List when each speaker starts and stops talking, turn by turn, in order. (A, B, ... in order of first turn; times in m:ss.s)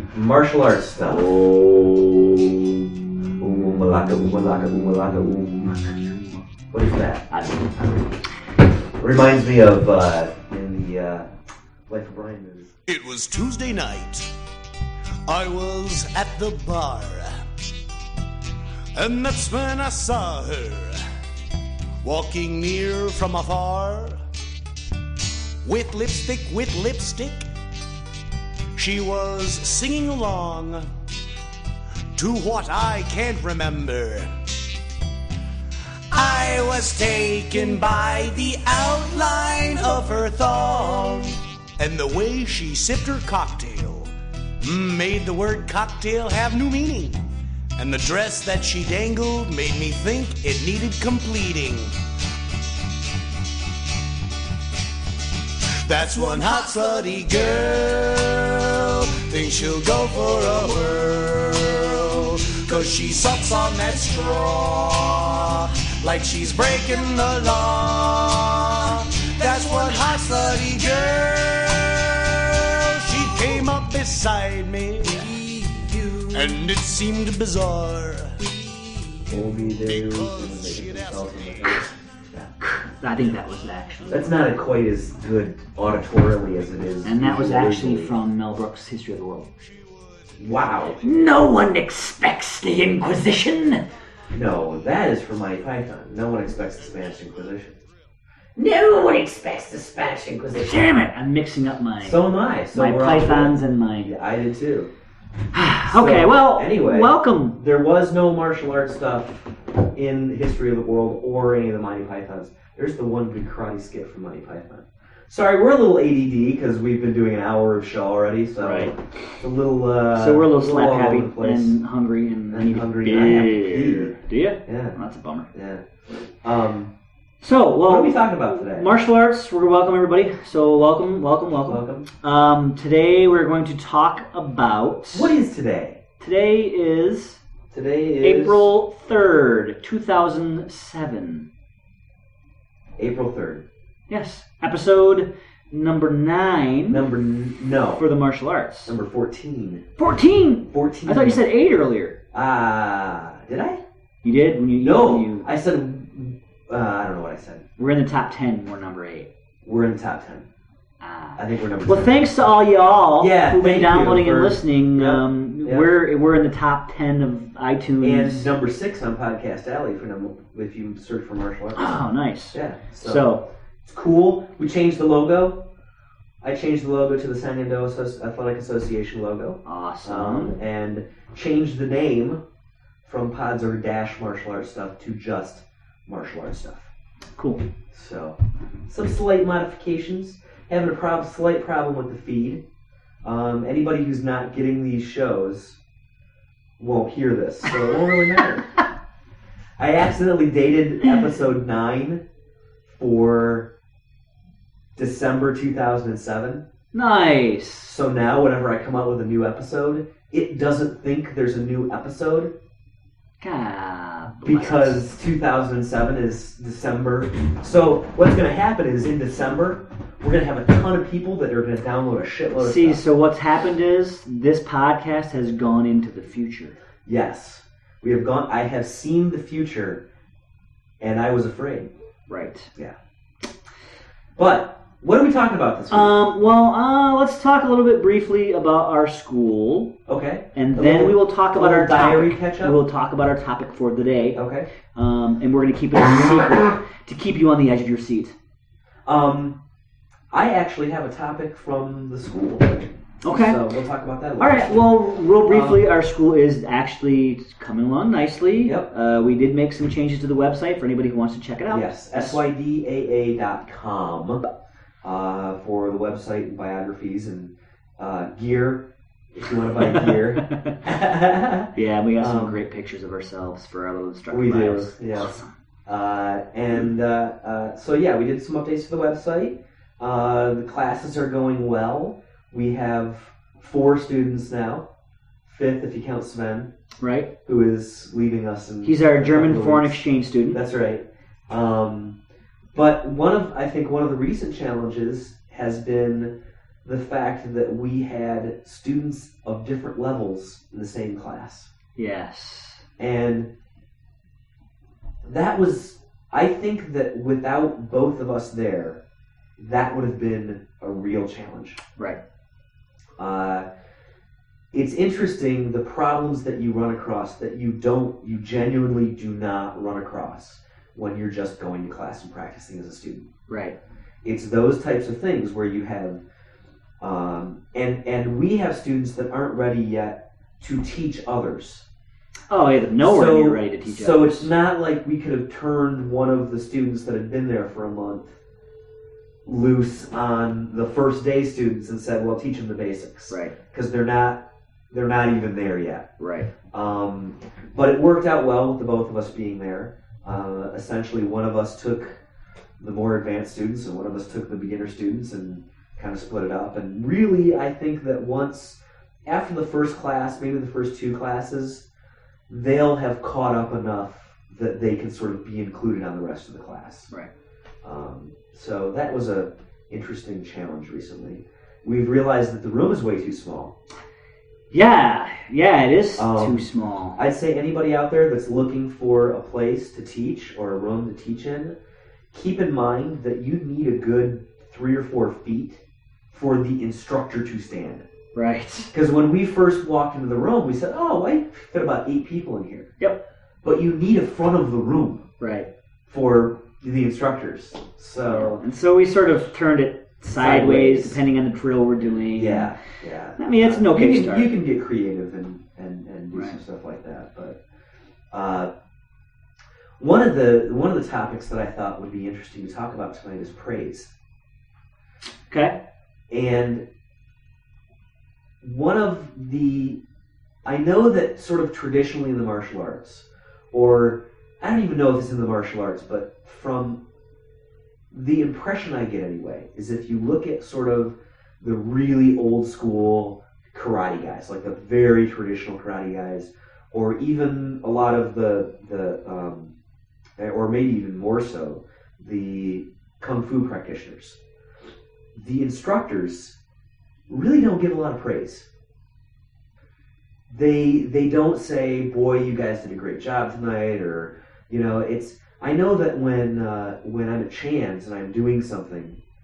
0:00.1-0:01.3 A
0:01.3-0:01.9 B
0:03.4-0:05.8 A
0:06.7-0:07.3 A
0:07.3-0:07.9 C
0:09.0-0:11.3 A
0:11.9-0:12.7 A
0:12.9-0:14.3 B
0:15.3-0:17.4 B
0:19.0-0:21.0 B
0:22.0-0:24.2 B
0:25.6-0:27.5 B
0:28.8-0:30.9 B
0:32.2-0:34.3 B
0:36.1-0:47.2 B
0:47.8-0:51.9 B
0:55.9-1:21.9 B
1:19.3-1:22.5 A
1:22.6-1:24.4 C
1:24.1-1:28.2 A
1:27.0-1:29.5 C
1:29.6-1:30.2 B
1:30.4-1:31.0 A
1:31.0-1:33.8 C
1:34.3-1:37.8 A
1:38.6-1:40.8 A
1:40.5-1:44.1 C
1:42.0-1:44.9 A
1:45.5-1:47.6 C
1:45.8-2:01.8 A
1:58.6-1:58.9 C
2:00.1-2:05.5 C
2:02.5-2:04.1 A
2:04.7-2:05.0 A
2:05.5-2:05.8 A
2:06.4-2:06.9 A
2:07.4-2:15.3 C
2:07.8-2:08.9 A
2:11.7-2:12.1 A
2:15.1-2:16.0 A
2:16.2-2:17.4 C
2:17.7-2:18.7 A
2:18.2-2:21.5 C
2:23.0-2:23.7 A
2:24.1-2:27.0 C
2:26.9-2:28.0 A
2:28.0-2:29.0 C
2:28.9-2:29.8 A
2:30.0-2:32.2 C
2:30.7-2:31.4 A
2:32.3-2:33.8 A
2:34.2-2:35.5 C
2:34.8-2:37.7 A
2:37.8-2:39.3 C
2:39.6-2:40.5 A
2:41.0-2:48.5 C
2:41.4-2:42.2 A
2:43.2-2:45.9 A
2:48.0-2:52.0 A
2:51.8-2:53.4 C
2:52.5-2:53.3 A
2:53.9-2:55.6 A
2:56.4-3:02.4 A
2:59.6-3:00.6 C
3:03.0-3:06.9 A
3:07.4-3:07.6 C
3:07.9-3:12.6 A
3:13.2-3:15.8 A
3:16.8-3:18.7 A
3:19.8-3:22.2 A
3:22.9-3:23.7 A
3:25.0-3:26.6 A
3:26.9-3:27.9 C
3:27.8-3:32.5 A
3:33.4-3:35.0 C
3:34.4-3:43.0 A
3:42.6-3:46.8 C
3:47.0-3:50.0 A
3:51.0-3:51.9 A
3:52.3-3:52.7 C
3:54.4-3:56.1 A
3:55.9-3:59.9 C
4:00.1-4:02.8 A
4:00.5-4:08.4 C
4:04.4-4:04.7 A
4:09.1-4:09.6 A
4:10.3-4:14.9 A
4:13.2-4:13.6 C
4:14.4-4:22.4 C
4:15.4-4:15.8 A
4:18.6-4:18.9 A
4:21.7-4:24.4 A
4:25.0-4:32.6 A
4:29.8-4:30.8 C
4:31.7-4:35.5 C
4:34.3-4:35.3 A
4:35.9-4:44.9 A
4:45.4-4:46.7 A
4:47.0-4:47.3 C
4:47.5-4:52.2 A
4:48.8-4:50.6 C
4:52.7-5:01.7 A
5:02.0-5:02.8 C
5:03.0-5:03.5 A
5:05.2-5:09.0 A
5:09.6-5:11.8 A
5:13.2-5:13.7 A
5:14.7-5:23.3 A
5:23.5-5:23.8 C
5:24.2-5:26.2 A
5:27.0-5:31.8 A
5:32.5-5:34.5 C
5:33.0-5:38.4 A
5:39.4-5:46.1 A
5:43.3-5:43.6 C
5:46.2-5:46.5 C
5:46.7-5:52.2 A
5:52.8-6:01.8 A
6:02.5-6:07.1 A
6:07.8-6:13.8 A
6:14.7-6:17.2 C
6:16.2-6:21.8 A
6:22.3-6:28.1 A
6:28.3-6:28.9 C
6:28.9-6:32.9 A
6:33.6-6:35.3 A
6:35.4-6:35.7 C
6:36.1-6:38.6 A
6:38.2-6:42.7 C
6:40.2-6:41.2 A
6:42.3-6:47.6 A
6:43.4-6:44.5 C
6:46.3-6:46.6 C
6:48.3-6:48.7 A
6:50.0-6:54.1 A
6:55.5-6:55.8 C
6:56.3-6:56.8 A
6:58.6-7:00.0 A
7:00.6-7:07.0 A
7:08.1-7:19.7 A
7:20.4-7:24.4 A
7:25.3-7:26.6 A
7:27.3-7:28.7 A
7:30.5-7:39.2 A